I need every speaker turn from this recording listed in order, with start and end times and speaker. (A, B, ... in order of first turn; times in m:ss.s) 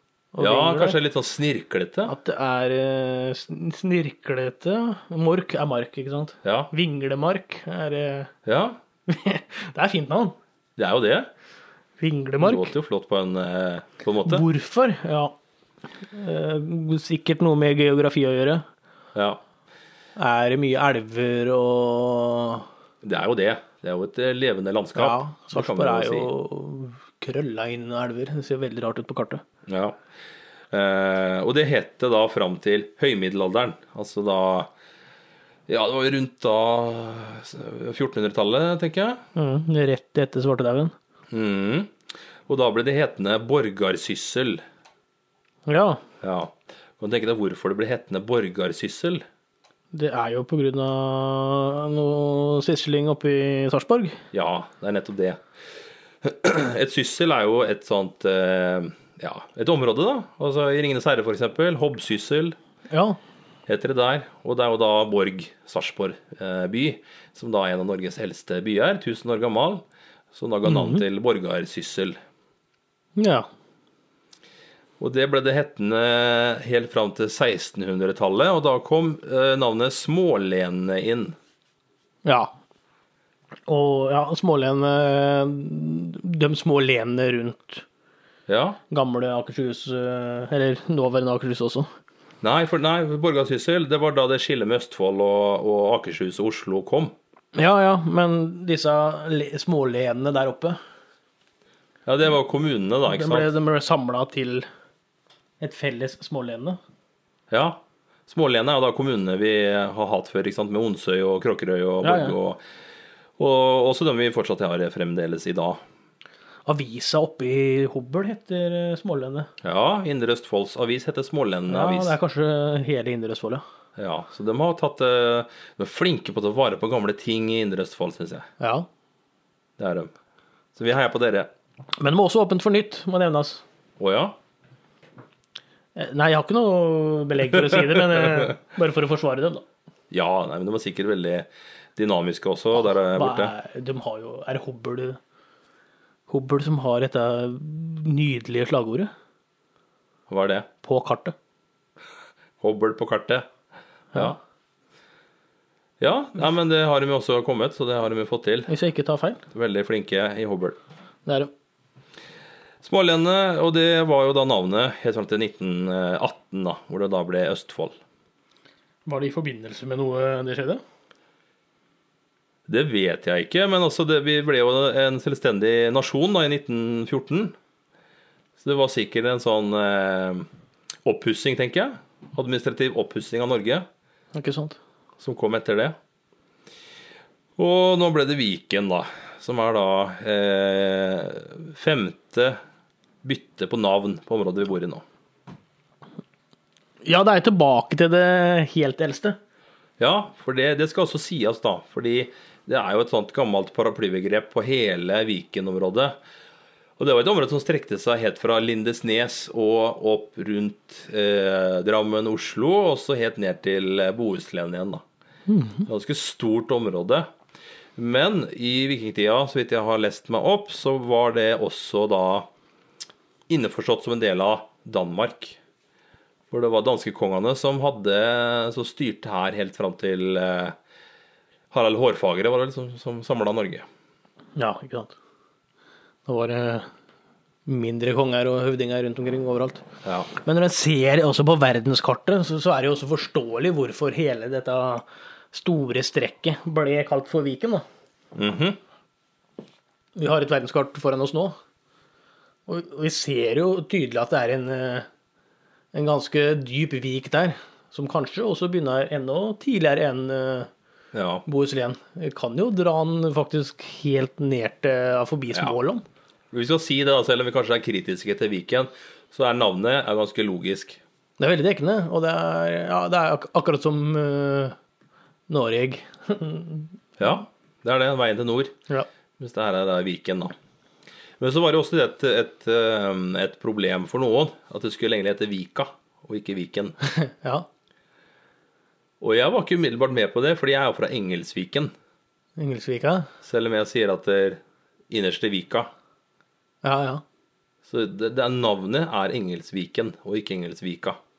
0:00.3-0:01.0 A
0:00.4-0:02.1 B
0:02.1-0:08.3 A
0:06.4-0:06.7 B
0:08.5-0:08.8 B
0:09.1-0:10.4 A
0:10.8-0:11.3 B
0:12.0-0:12.7 A
0:12.4-0:14.5 B
0:14.2-0:15.4 A
0:16.1-0:18.6 A
0:19.2-0:19.4 B
0:20.2-0:22.7 A
0:23.0-0:26.3 B
0:25.0-0:29.4 A
0:29.7-0:30.0 B
0:30.7-0:34.7 B
0:35.7-0:39.2 B
0:39.4-0:40.9 A
0:41.3-0:41.9 B
0:42.5-0:44.6 B
0:45.7-0:46.0 A
0:46.2-0:49.2 B
0:49.9-0:54.2 A
0:54.3-0:55.4 B
0:56.2-1:02.6 B
1:02.9-1:03.2 A
1:03.7-1:12.2 B
1:10.6-1:11.0 A
1:13.2-1:13.5 A
1:15.0-1:21.4 B
1:22.2-1:22.5 A
1:23.7-1:27.8 A
1:28.5-1:28.8 B
1:28.9-1:31.9 A
1:32.4-1:37.2 B
1:37.6-1:40.8 A
1:42.1-1:43.5 B
1:43.1-1:44.7 A
1:45.6-1:46.8 A
1:47.5-1:52.6 B
1:52.0-1:52.4 A
1:53.4-1:55.8 B
1:56.7-1:59.5 A
1:59.6-2:02.2 B
2:01.7-2:03.6 A
2:04.0-2:08.5 B
2:08.6-2:08.9 A
2:09.8-2:10.1 B
2:10.8-2:11.5 B
2:12.0-2:13.6 A
2:14.0-2:14.4 B
2:16.0-2:19.6 A
2:17.8-2:18.5 B
2:20.1-2:23.5 B
2:23.0-2:25.2 A
2:26.3-2:29.1 A
2:30.3-2:30.7 B
2:30.8-2:31.4 A
2:32.6-2:33.5 B
2:36.0-2:38.7 B
2:38.7-2:39.4 A
2:39.5-2:40.8 B
2:41.3-2:41.5 A
2:42.8-2:48.0 B
2:49.1-2:50.8 A
2:52.7-2:57.6 B
2:58.6-3:00.5 B
3:01.0-3:03.9 B
3:04.3-3:04.8 A
3:05.2-3:06.0 B
3:07.6-3:12.6 B
3:13.2-3:15.0 B
3:17.0-3:19.4 A
3:20.0-3:26.2 B
3:27.0-3:35.0 B
3:35.5-3:35.9 A
3:35.9-3:37.3 B
3:38.0-3:42.5 B
3:43.5-3:45.6 B
3:46.5-3:50.8 B
3:51.7-3:53.9 B
3:54.6-3:55.1 A
3:56.3-3:56.9 A
3:57.7-4:07.8 A
4:00.0-4:00.3 B
4:08.4-4:08.8 B
4:10.2-4:11.6 A
4:12.7-4:15.1 A
4:15.9-4:20.7 A
4:21.1-4:21.4 B
4:21.5-4:26.0 A
4:26.5-4:31.0 B
4:31.4-4:34.8 A
4:35.5-4:36.9 A
4:37.2-4:38.8 B
4:39.4-4:40.5 B
4:41.4-4:47.0 B
4:47.1-4:47.7 A
4:49.2-4:51.9 B
4:52.6-4:53.3 A
4:53.4-4:55.9 B
4:56.8-4:57.2 A
4:57.8-5:01.2 B